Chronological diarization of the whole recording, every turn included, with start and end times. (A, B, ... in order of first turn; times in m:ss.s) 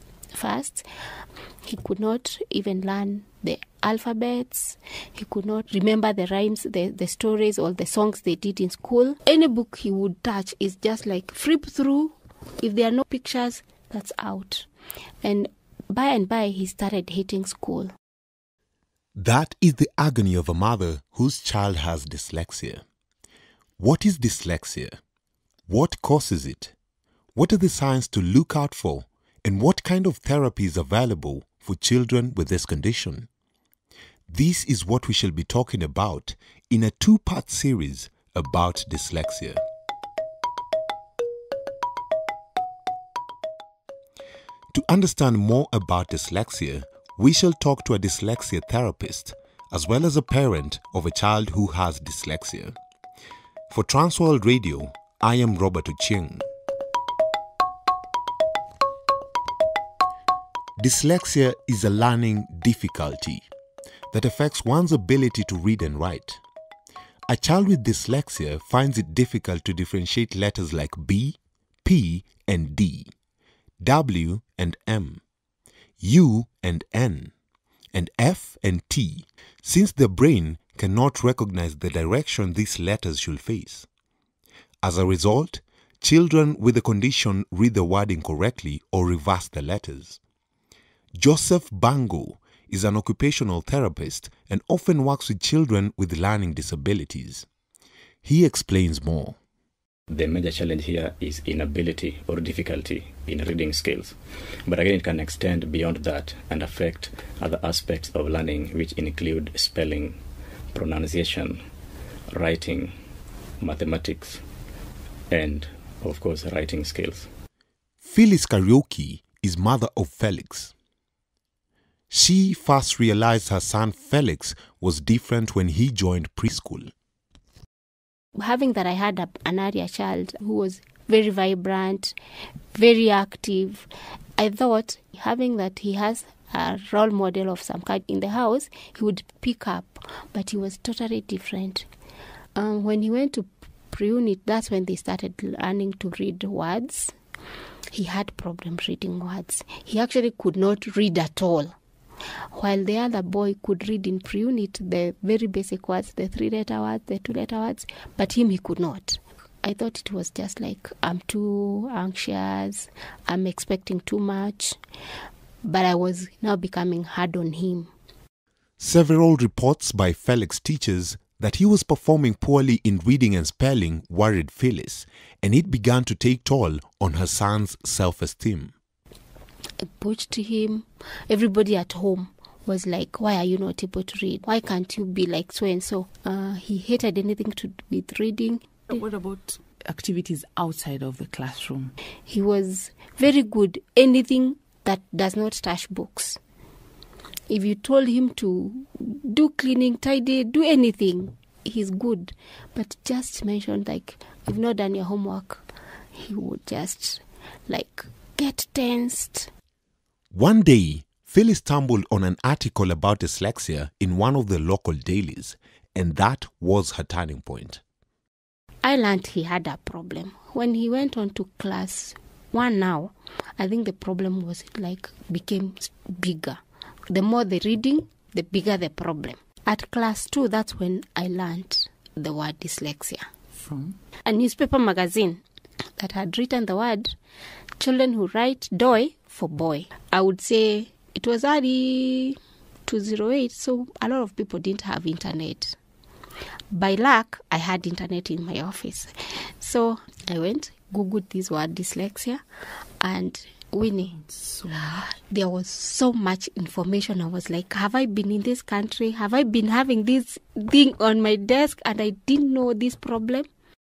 0:00.3-0:00.8 A
0:01.7-0:14.7 A
0:15.2-0:17.9 A
0:19.2-0:22.8 B
0:23.8-0:25.0 B
0:25.7-0:26.7 B
0:27.4-0:33.3 B
0:34.3-0:39.6 B
0:44.7-0:52.8 B
0:53.7-0:56.5 B
1:00.8-1:03.4 B
1:04.1-1:06.4 B
1:07.3-1:13.1 B
1:13.8-1:15.2 B
1:16.0-1:17.3 B
1:17.9-1:23.9 B
1:24.8-1:30.2 B
1:31.2-1:37.5 B
1:38.2-1:39.4 B
1:40.1-1:44.2 C
1:44.7-1:50.2 C
1:50.7-1:51.6 C
1:52.3-1:52.9 C
1:53.6-1:54.4 C
1:55.3-1:57.3 C
1:58.0-2:00.7 B
2:02.1-2:06.9 B
2:08.4-2:12.1 A
2:12.8-2:13.9 A
2:14.4-2:21.9 A
2:22.6-2:27.1 A
2:27.9-2:31.7 A
2:32.5-2:44.8 A
2:45.6-2:47.9 A
2:48.8-2:58.7 B
2:59.8-3:08.6 A
3:08.9-3:11.9 D
3:12.3-3:16.4 A
3:17.5-3:29.5 A
3:30.3-3:37.8 B
3:38.8-3:53.3 A
3:53.6-3:53.9 D
3:54.2-3:55.4 A
3:56.0-3:57.1 A
3:57.8-4:05.8 A
4:06.7-4:12.4 A
4:13.0-4:23.5 A
4:14.4-4:14.9 D